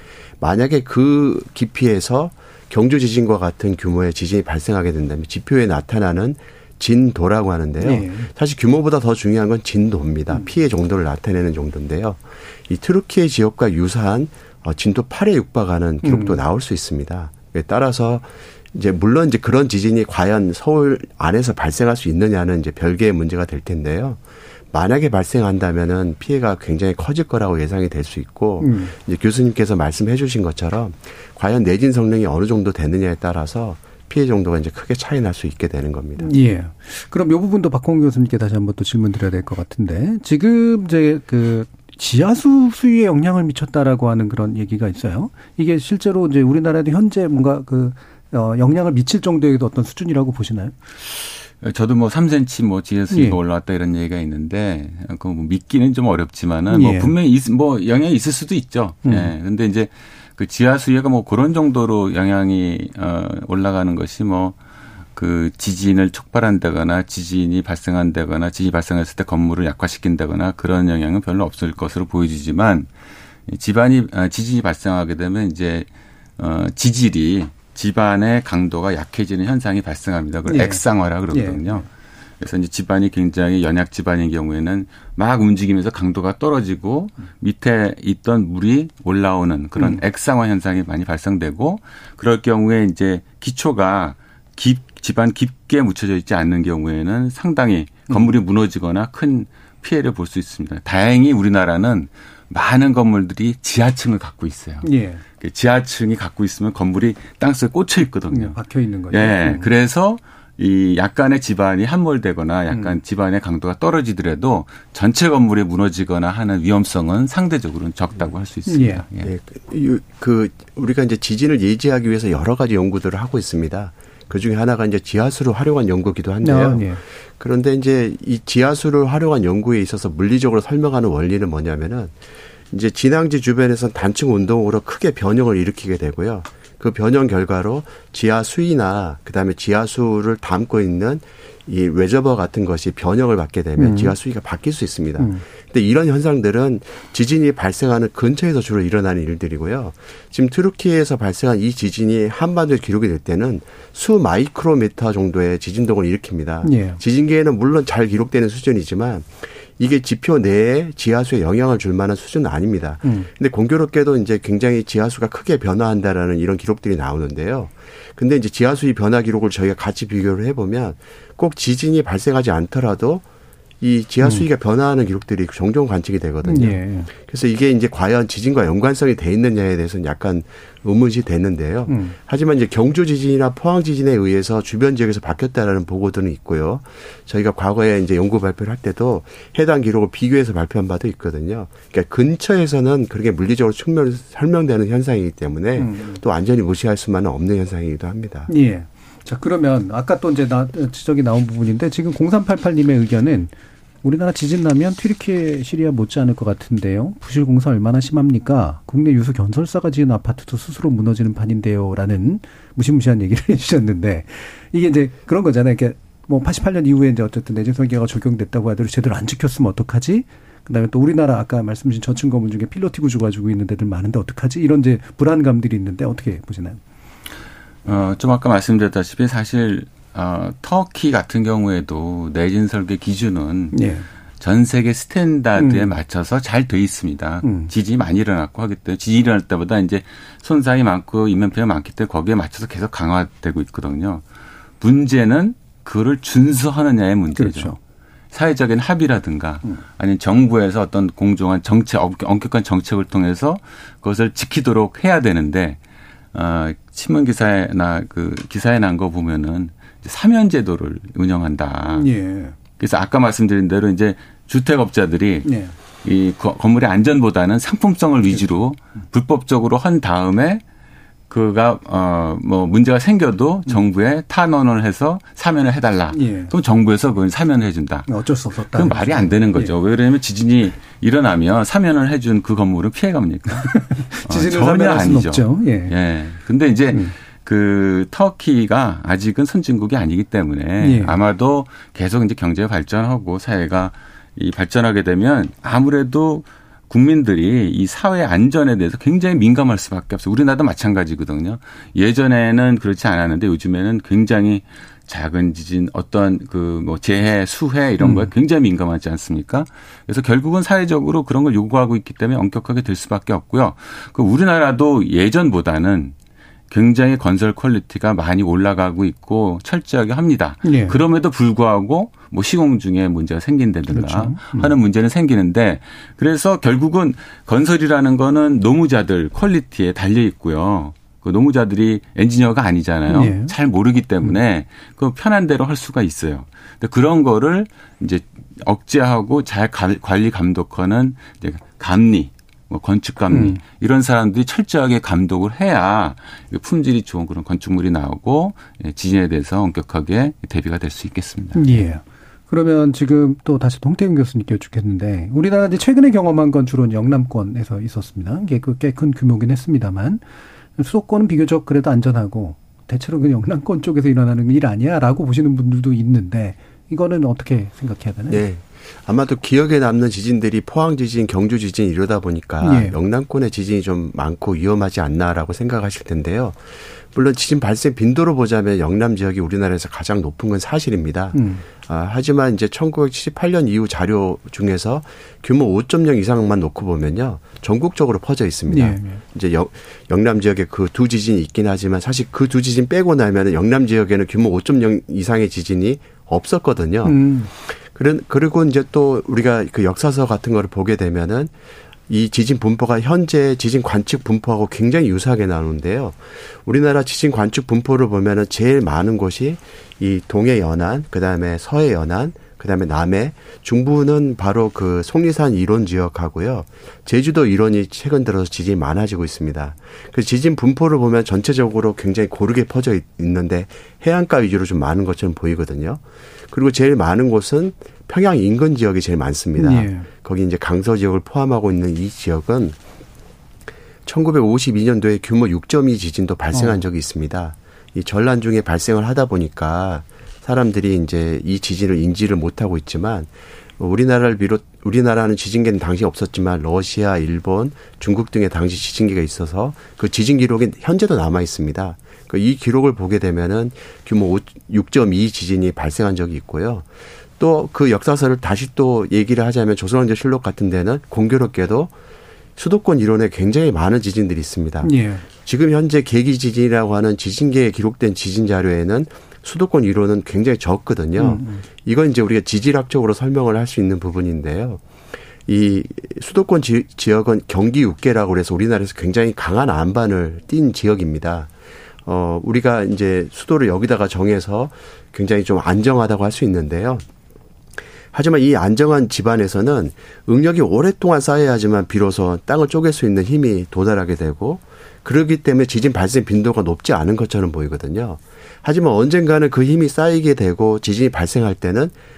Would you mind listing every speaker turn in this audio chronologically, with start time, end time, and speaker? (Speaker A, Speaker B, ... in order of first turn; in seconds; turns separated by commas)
Speaker A: 0.4-24.2, Speaker B: 7.8-8.3, Speaker B: 16.0-16.4, Speaker A: 24.7-36.3, Speaker B: 28.6-28.9, Speaker B: 36.2-50.7, Speaker C: 51.6-64.6, Speaker B: 53.1-53.4, Speaker B: 56.7-57.1, Speaker B: 59.0-59.3, Speaker C: 65.1-72.9, Speaker C: 73.5-81.8, Speaker B: 80.5-81.8, Speaker C: 82.4-119.3, Speaker B: 104.8-105.2, Speaker B: 108.3-109.7, Speaker B: 112.7-113.0, Speaker B: 118.7-119.0, Speaker A: 119.2-132.1, Speaker B: 126.4-127.0, Speaker A: 132.7-173.2, Speaker B: 143.8-144.1, Speaker B: 145.2-145.4, Speaker B: 156.6-157.0, Speaker A: 173.8-198.5, Speaker B: 176.4-177.1, Speaker B: 181.9-182.2, Speaker B: 195.8-196.2, Speaker B: 198.5-203.5, Speaker B: 204.0-226.8, Speaker C: 227.8-233.9, Speaker B: 233.7-234.1, Speaker C: 234.4-244.2, Speaker B: 235.6-235.9, Speaker B: 237.4-237.7, Speaker C: 244.8-247.8, Speaker B: 247.3-247.8, Speaker C: 248.3-255.8, Speaker C: 256.3-262.1, Speaker B: 261.9-262.6, Speaker C: 262.7-265.5, Speaker B: 265.4-265.7, Speaker C: 266.0-270.6, Speaker C: 271.3-316.1, Speaker B: 276.1-276.5, Speaker B: 278.1-279.7, Speaker B: 283.7-285.9, Speaker B: 290.8-291.2, Speaker B: 308.0-308.3, Speaker C: 316.7-351.8, Speaker B: 320.6-321.0, Speaker B: 323.9-324.7, Speaker B: 333.1-333.5, Speaker B: 343.3-343.6, Speaker B: 351.6-360.2, Speaker B: 360.8-368.4, Speaker A: 368.3-401.5, Speaker B: 372.6-372.9, Speaker B: 381.3-381.6, Speaker B: 388.7-389.2, Speaker B: 397.0-397.5, Speaker A: 402.1-432.8, Speaker B: 429.6-430.1, Speaker A: 434.1-456.9, Speaker B: 436.5-436.8, Speaker A: 457.4-461.9, Speaker A: 462.6-474.8, Speaker B: 464.8-465.2, Speaker B: 471.1-471.6, Speaker A: 475.4-481.5, Speaker A: 482.1-487.0, Speaker A: 488.1-501.9